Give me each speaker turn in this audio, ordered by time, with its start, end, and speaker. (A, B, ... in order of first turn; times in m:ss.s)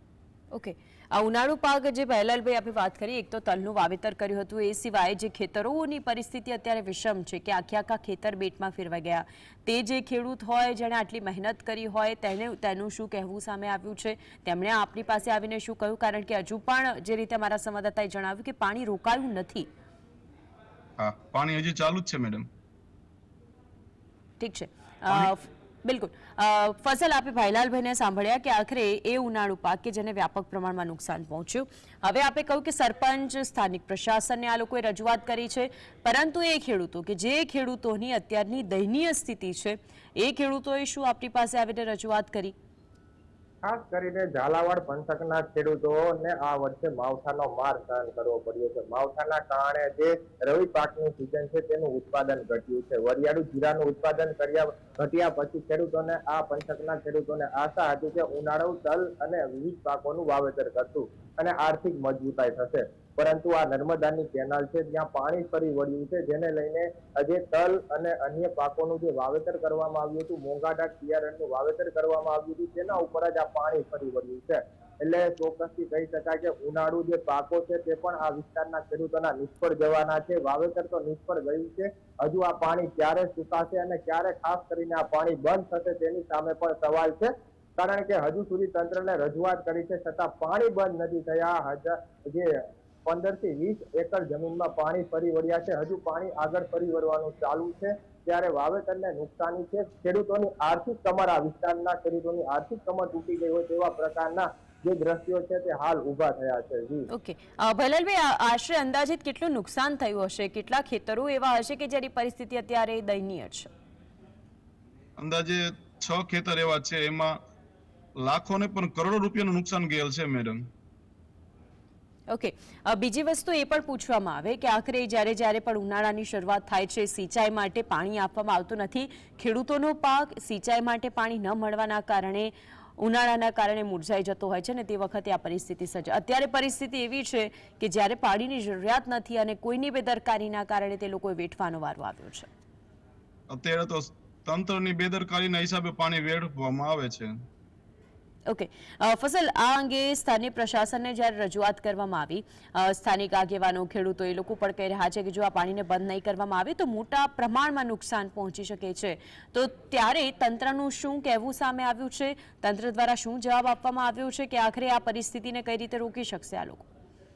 0:00.5-0:19.7 A
0:21.0-0:22.5 B
0:24.4-0:42.6 A
0:43.6-1:32.5 C
1:33.1-1:47.1 C
1:47.1-1:53.7 A
1:55.2-1:57.4 B
1:58.2-2:00.6 B
2:02.3-2:22.5 A
2:23.5-2:27.3 B
2:28.5-2:46.9 A